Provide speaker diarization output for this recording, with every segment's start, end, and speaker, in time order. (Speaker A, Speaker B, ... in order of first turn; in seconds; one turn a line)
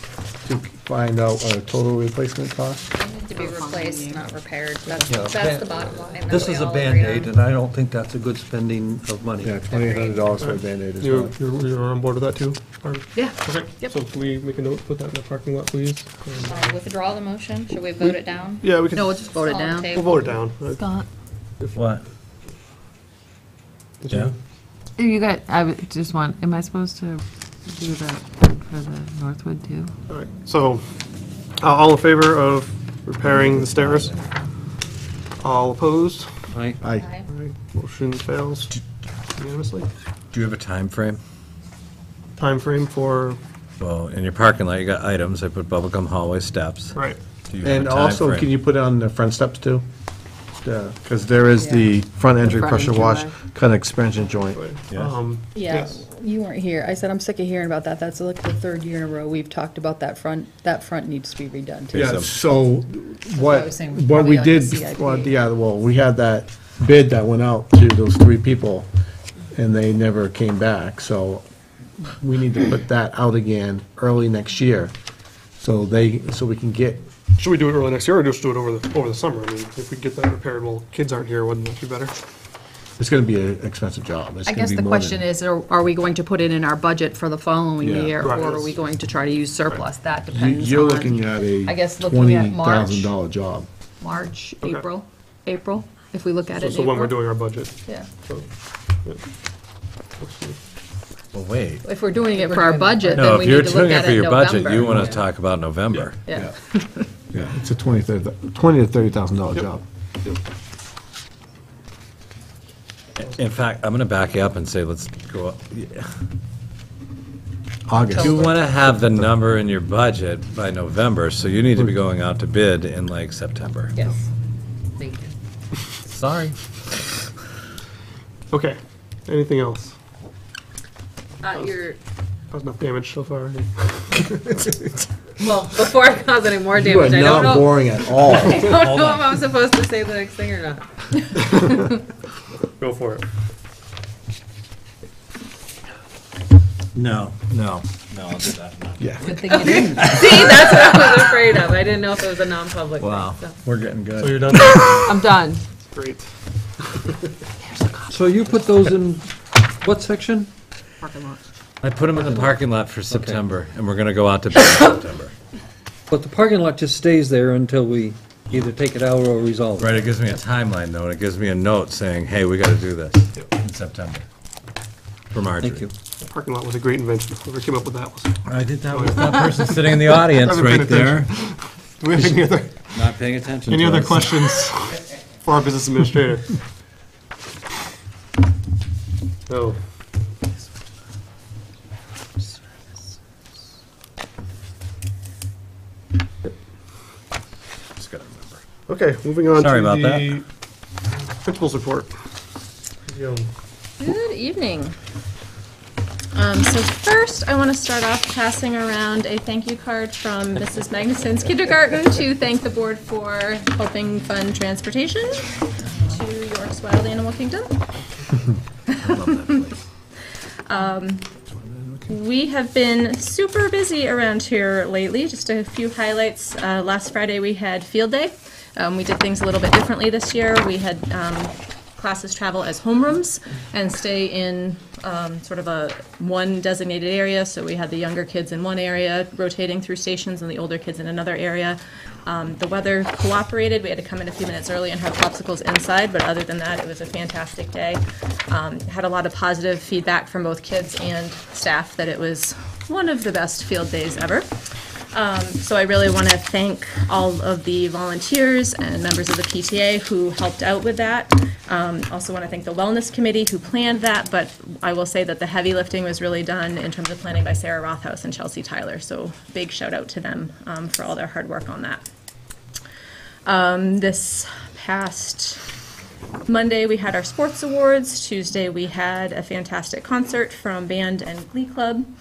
Speaker A: 0.5-2.9
Speaker B: 3.0-7.3
Speaker C: 5.0-9.6
Speaker A: 9.4-11.3
Speaker B: 9.7-10.1
Speaker D: 10.4-16.8
Speaker B: 13.2-13.9
Speaker B: 16.5-20.2
Speaker D: 18.0-20.9
Speaker E: 21.8-22.0
Speaker D: 24.0-24.3
Speaker F: 25.0-29.9
Speaker D: 30.1-30.8
Speaker D: 31.6-34.1
Speaker D: 35.4-36.3
Speaker C: 36.5-36.8
Speaker A: 36.8-37.1
Speaker D: 37.3-38.7
Speaker D: 39.4-39.9
Speaker E: 40.3-41.2
Speaker D: 42.4-43.4
Speaker E: 43.8-48.5
Speaker A: 47.6-49.9
Speaker A: 50.6-54.6
Speaker F: 52.5-53.3
Speaker D: 54.5-56.0
Speaker B: 55.5-62.2
Speaker E: 61.9-62.3
Speaker A: 61.9-68.9
Speaker B: 63.3-65.4
Speaker A: 69.5-71.4
Speaker A: 72.0-74.9
Speaker A: 75.6-77.0
Speaker D: 77.4-82.2
Speaker A: 83.0-85.2
Speaker B: 84.5-93.2
Speaker A: 87.8-88.2
Speaker D: 88.2-88.8
Speaker A: 90.3-93.7
Speaker B: 94.0-97.3
Speaker D: 94.6-94.9
Speaker D: 96.5-98.5
Speaker D: 100.2-100.6
Speaker E: 101.3-101.8
Speaker B: 101.8-105.2
Speaker E: 103.1-106.2
Speaker B: 106.3-107.0
Speaker A: 107.3-109.8
Speaker E: 113.2-116.1
Speaker A: 117.9-118.5
Speaker E: 118.1-124.0
Speaker F: 125.0-125.3
Speaker E: 126.1-126.6
Speaker D: 128.5-129.9
Speaker F: 131.4-132.0
Speaker D: 131.5-131.9
Speaker D: 132.5-134.7
Speaker F: 135.4-141.2
Speaker A: 136.7-138.8
Speaker D: 141.4-141.9
Speaker D: 142.8-143.2
Speaker E: 146.9-149.7
Speaker A: 149.0-149.4
Speaker B: 149.3-150.3
Speaker F: 149.6-153.6
Speaker E: 153.0-153.4
Speaker A: 153.7-154.6
Speaker D: 154.2-155.2
Speaker F: 154.6-155.6
Speaker D: 155.9-156.3
Speaker D: 156.8-157.2
Speaker C: 158.1-160.5
Speaker B: 161.0-161.3
Speaker E: 161.8-165.3
Speaker C: 162.2-163.5
Speaker C: 166.1-170.1
Speaker E: 169.8-174.2
Speaker E: 175.3-175.9
Speaker C: 175.6-175.9
Speaker D: 176.2-178.3
Speaker E: 178.5-181.3
Speaker D: 178.9-183.0
Speaker E: 182.1-184.4
Speaker D: 183.7-186.5
Speaker D: 189.5-189.8
Speaker E: 198.0-198.6
Speaker D: 198.9-200.4
Speaker E: 199.6-200.4
Speaker D: 201.5-202.1
Speaker D: 203.1-203.5
Speaker G: 204.0-204.9
Speaker G: 206.3-217.8
Speaker G: 218.9-219.7
Speaker E: 219.0-219.8
Speaker G: 220.7-221.3
Speaker G: 222.1-254.5
Speaker G: 255.1-272.0
Speaker G: 273.5-275.6
Speaker G: 276.5-282.1